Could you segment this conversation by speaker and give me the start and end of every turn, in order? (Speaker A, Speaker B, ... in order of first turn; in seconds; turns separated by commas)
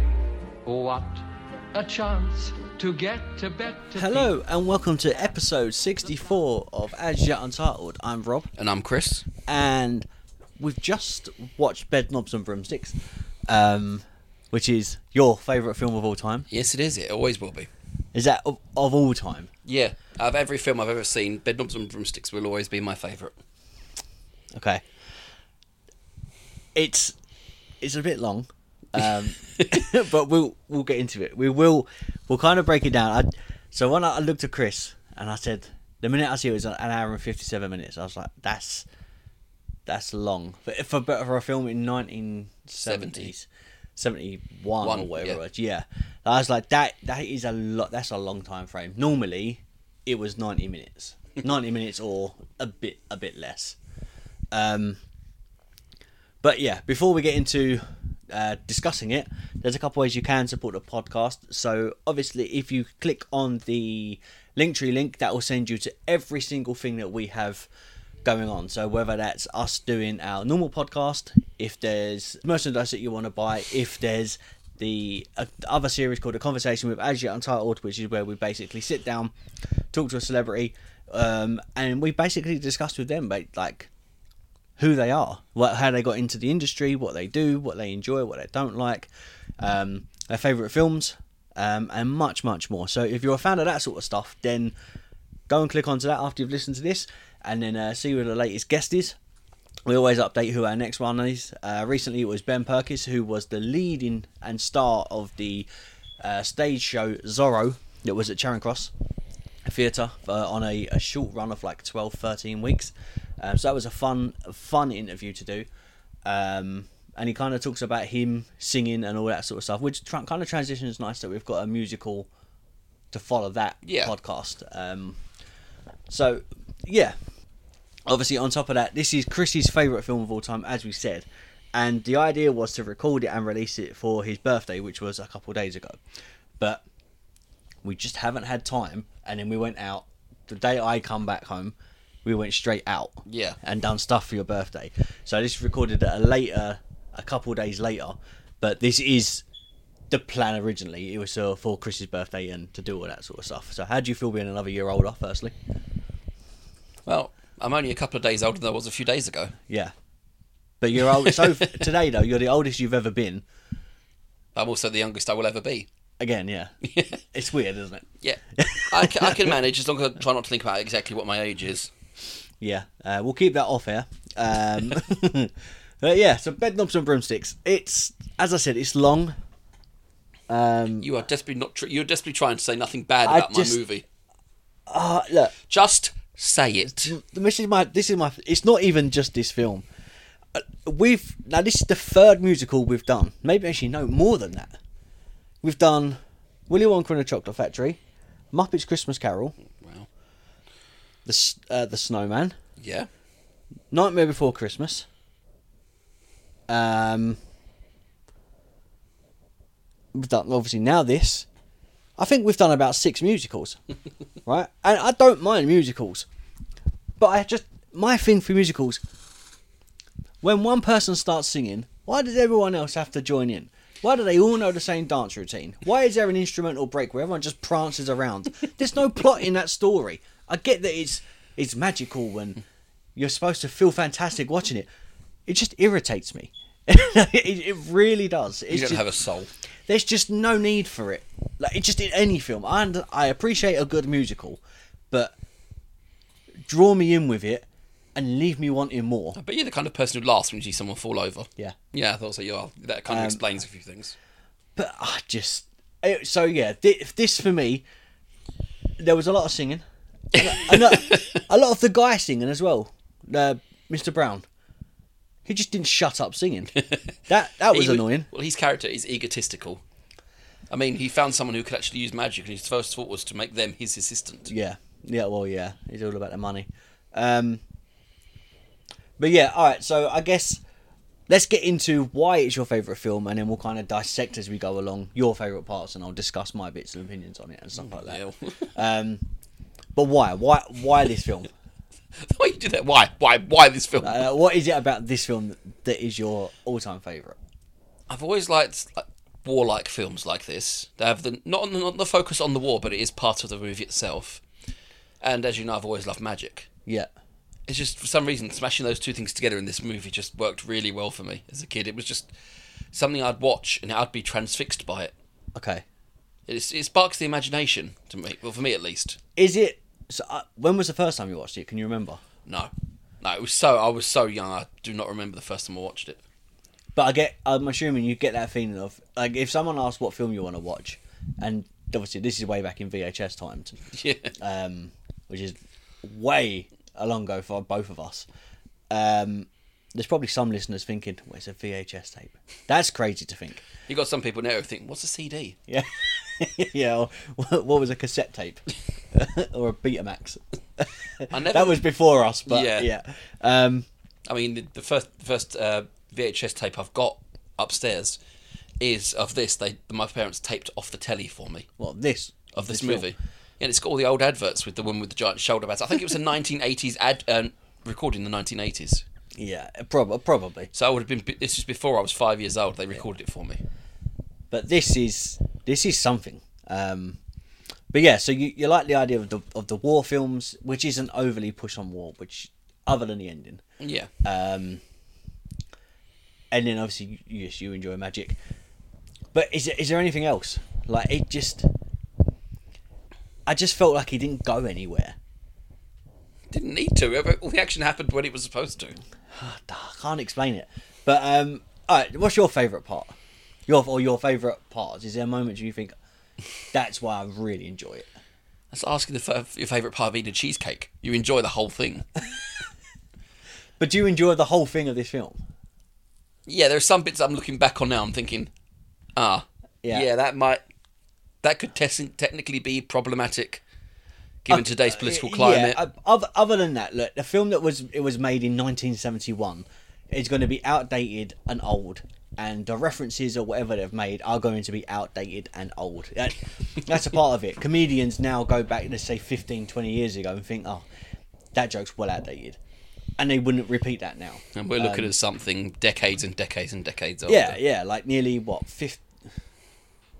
Speaker A: 0.7-4.3, Speaker B: 3.9-8.5, Speaker C: 8.6-9.2, Speaker B: 9.5-10.1, Speaker B: 10.6-12.9, Speaker B: 13.5-16.5, Speaker C: 16.5-17.7, Speaker B: 18.1-19.5, Speaker C: 19.6-23.3, Speaker B: 24.5-24.8, Speaker B: 26.7-27.1, Speaker B: 27.8-38.9, Speaker C: 29.5-29.8, Speaker B: 39.9-53.8, Speaker C: 42.8-43.3, Speaker C: 44.8-45.4, Speaker B: 54.5-55.0, Speaker B: 56.4-67.7, Speaker B: 68.2-79.3, Speaker B: 79.9-83.9, Speaker B: 84.8-94.7, Speaker B: 95.5-99.2, Speaker B: 99.8-105.7, Speaker B: 106.2-108.9, Speaker B: 109.6-115.7, Speaker B: 116.2-122.3, Speaker B: 123.1-125.2, Speaker C: 123.8-124.1, Speaker B: 126.1-127.2, Speaker B: 128.1-136.0, Speaker B: 136.6-136.8, Speaker B: 137.8-149.4, Speaker C: 143.2-143.6, Speaker B: 150.1-155.6, Speaker C: 157.1-159.5, Speaker B: 159.7-159.9, Speaker B: 160.8-163.4, Speaker C: 161.1-161.8, Speaker C: 164.5-165.9, Speaker B: 166.2-166.7, Speaker C: 166.8-167.2, Speaker B: 167.3-169.5, Speaker C: 168.2-171.9, Speaker B: 172.6-179.3, Speaker B: 180.5-181.1, Speaker C: 181.0-184.0, Speaker B: 183.2-183.8, Speaker B: 184.9-185.5, Speaker C: 185.7-187.1, Speaker B: 186.9-189.8, Speaker B: 190.5-194.7, Speaker B: 195.6-196.2, Speaker B: 196.7-198.0, Speaker B: 198.5-199.6, Speaker C: 199.8-200.1, Speaker B: 201.2-202.5, Speaker C: 202.8-203.1, Speaker B: 203.9-205.1, Speaker B: 206.7-207.4, Speaker B: 210.1-211.5, Speaker B: 212.2-213.8, Speaker B: 214.4-216.2, Speaker B: 217.2-219.0, Speaker B: 220.4-232.6, Speaker B: 233.2-234.9, Speaker B: 235.4-239.0, Speaker C: 238.7-239.5, Speaker B: 239.9-245.3, Speaker B: 246.7-249.4, Speaker C: 249.3-254.1, Speaker B: 253.1-253.4, Speaker B: 254.8-257.8, Speaker B: 259.0-259.8, Speaker B: 260.3-264.4, Speaker C: 260.4-261.4, Speaker B: 265.4-266.7, Speaker C: 266.8-267.1, Speaker B: 267.3-268.3, Speaker C: 267.7-269.8, Speaker C: 270.7-274.5, Speaker B: 274.5-277.6, Speaker B: 279.2-280.6, Speaker B: 281.3-288.2, Speaker C: 287.8-288.7, Speaker B: 288.7-289.2, Speaker B: 289.9-291.5, Speaker C: 292.2-294.2, Speaker B: 294.0-297.4, Speaker C: 298.1-304.4, Speaker C: 305.2-306.7, Speaker C: 307.7-312.3, Speaker C: 312.9-315.1, Speaker B: 315.5-315.8, Speaker C: 316.5-319.2, Speaker B: 319.4-322.2, Speaker C: 322.4-322.7, Speaker C: 323.2-326.2, Speaker B: 326.9-333.7, Speaker C: 333.9-334.3, Speaker B: 334.4-338.3, Speaker B: 338.9-343.6, Speaker C: 343.9-345.6, Speaker B: 345.7-353.9, Speaker C: 351.3-351.8, Speaker C: 352.4-352.9, Speaker C: 354.3-358.2, Speaker C: 358.8-361.7, Speaker B: 361.8-363.1, Speaker C: 362.5-369.0, Speaker B: 369.4-370.7, Speaker C: 370.7-373.6, Speaker B: 374.5-377.2, Speaker B: 377.9-383.6, Speaker C: 383.8-384.1, Speaker B: 384.2-384.8, Speaker B: 386.5-388.4, Speaker B: 389.3-391.7, Speaker B: 393.4-395.2, Speaker C: 396.5-399.0, Speaker B: 399.3-403.1, Speaker B: 403.7-405.9, Speaker B: 406.7-408.1, Speaker C: 408.7-412.1, Speaker B: 413.8-415.4, Speaker C: 416.4-418.5, Speaker C: 419.1-420.6, Speaker C: 421.4-423.6, Speaker C: 424.4-425.8, Speaker B: 424.5-440.9, Speaker B: 441.5-442.6, Speaker B: 443.2-445.1, Speaker C: 444.5-447.6, Speaker B: 447.3-449.1